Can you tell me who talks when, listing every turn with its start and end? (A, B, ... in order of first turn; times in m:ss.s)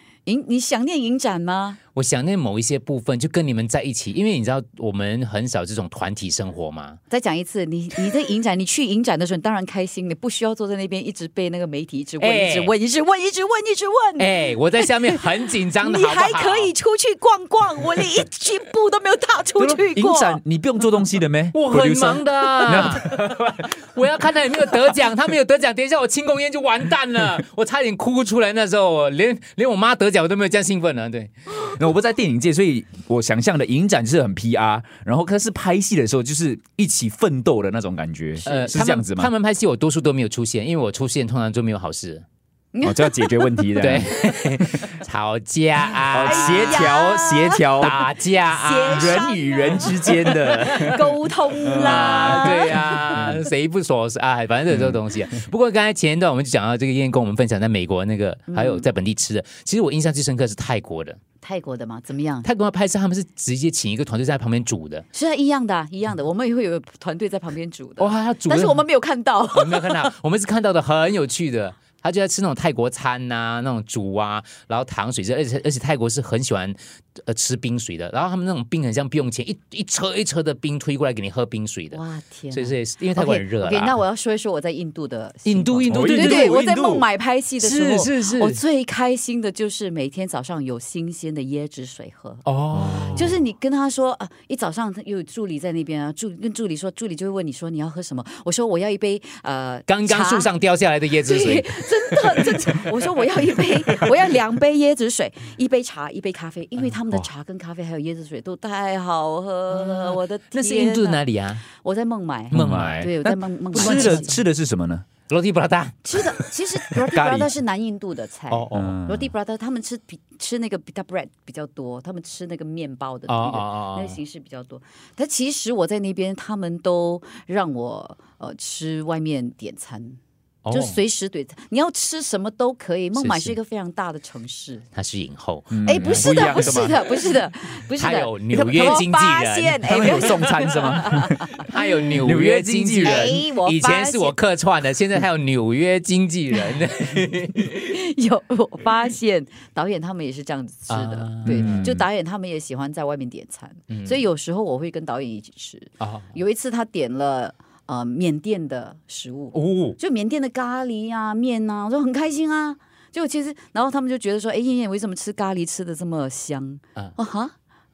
0:00.2-0:01.8 A
0:01.9-0:07.0 B
0:07.1-0:20.4 A
0:12.2-0:12.7 B
0:14.2-0:16.7 B
0:19.6-0:23.3 C
0:21.5-0:31.3 B
0:31.5-0:39.3 C
0:38.4-0:42.2 B
0:42.7-0:43.8 A
0:42.8-0:44.1 C
0:43.8-0:46.9 B
0:46.1-0:48.0 C
0:46.2-0:47.9 A
0:47.8-0:49.2 B
0:48.5-0:53.3 A
0:48.8-0:52.6 C
0:51.8-1:01.2 B
0:58.5-0:58.9 A
1:01.4-1:02.5 A
1:02.4-1:05.0 B
1:05.1-1:10.1 A
1:08.0-1:08.8 B
1:09.5-1:24.0 B
1:21.9-1:32.4 A
1:25.4-1:26.6 B
1:25.9-1:27.0 C
1:27.6-1:28.6 B
1:32.4-1:33.3 B
1:32.7-1:33.3 C
1:33.0-1:40.5 A
1:39.9-1:42.6 B
1:41.2-1:54.4 A
1:49.7-1:51.6 B
1:52.5-1:53.1 B
1:52.5-1:55.0 C
1:53.7-1:54.3 B
1:55.3-1:56.4 B
1:56.0-2:10.2 A
1:57.0-1:57.5 C
1:58.5-1:59.0 B
1:58.7-1:59.3 C
2:03.3-2:04.2 B
2:10.6-2:11.0 B
2:10.7-2:14.8 A
2:13.1-2:13.6 B
2:14.9-2:17.0 B
2:15.7-2:17.0 C
2:15.8-2:21.5 A
2:17.9-2:27.8 B
2:18.6-2:18.9 C
2:19.8-2:21.5 C
2:22.2-2:23.3 C
2:23.0-2:24.3 A
2:27.7-2:47.5 A
2:30.9-2:31.9 B
2:31.4-2:32.0 C
2:33.9-2:34.2 B
2:36.0-2:36.4 B
2:39.5-2:40.0 B